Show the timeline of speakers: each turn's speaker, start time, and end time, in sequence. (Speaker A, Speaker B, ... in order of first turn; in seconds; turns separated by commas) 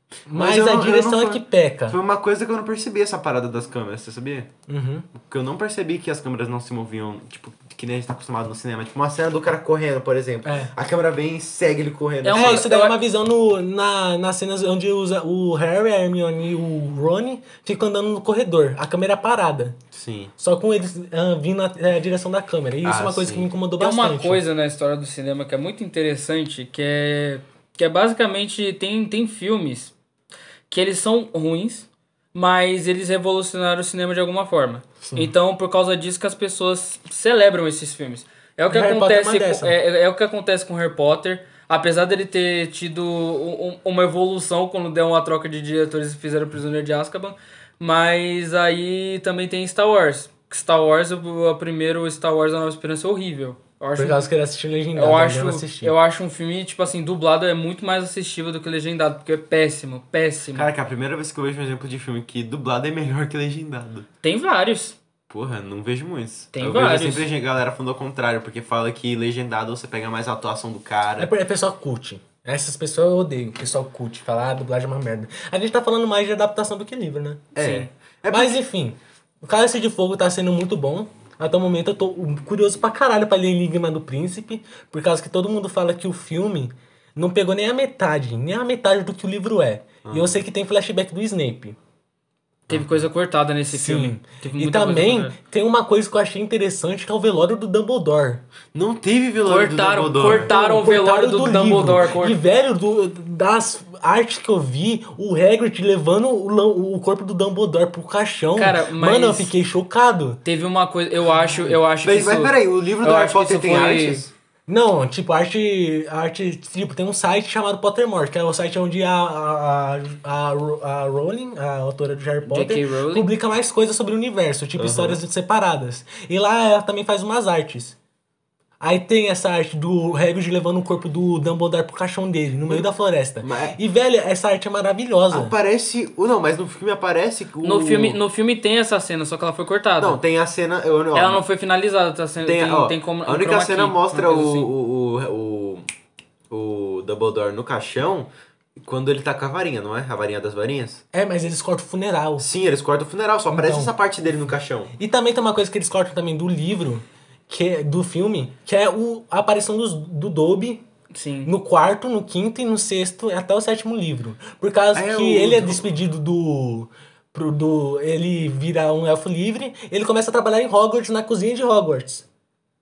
Speaker A: 0.3-2.0, Speaker B: 0.3-4.5, Speaker A: 4.7-5.1, Speaker B: 5.2-12.6, Speaker A: 10.4-10.7, Speaker C: 12.2-12.9, Speaker A: 12.3-19.8, Speaker B: 19.9-20.3, Speaker A: 20.4-24.4, Speaker B: 22.8-23.5, Speaker C: 23.8-29.9, Speaker C: 30.7-54.2, Speaker A: 35.0-35.3, Speaker A: 38.7-39.7, Speaker A: 54.0-55.9, Speaker C: 54.9-60.7, Speaker B: 60.5-64.1, Speaker C: 64.2-65.0, Speaker B: 65.3-71.3, Speaker C: 66.5-67.3, Speaker A: 71.2-77.5, Speaker B: 77.5-78.6, Speaker C: 77.6-77.9, Speaker A: 78.3-91.8, Speaker B: 90.0-90.4, Speaker C: 92.7-95.3, Speaker B: 92.7-93.1, Speaker A: 93.7-98.4, Speaker B: 98.7-100.5, Speaker C: 99.5-102.4, Speaker A: 100.2-110.4, Speaker C: 108.5-109.5, Speaker C: 110.4-114.2, Speaker B: 112.0-114.3, Speaker A: 114.7-128.0, Speaker C: 122.5-123.3, Speaker B: 124.8-125.2, Speaker A: 128.8-135.5, Speaker B: 133.4-133.8, Speaker B: 135.3-138.2, Speaker C: 137.6-140.2, Speaker B: 140.0-141.4, Speaker C: 141.1-144.7, Speaker B: 142.4-145.8, Speaker B: 146.5-151.0, Speaker A: 151.1-152.4, Speaker B: 152.4-154.9, Speaker A: 153.5-153.9, Speaker A: 155.0-160.8, Speaker C: 161.1-161.5, Speaker A: 161.4-172.2, Speaker B: 164.9-165.9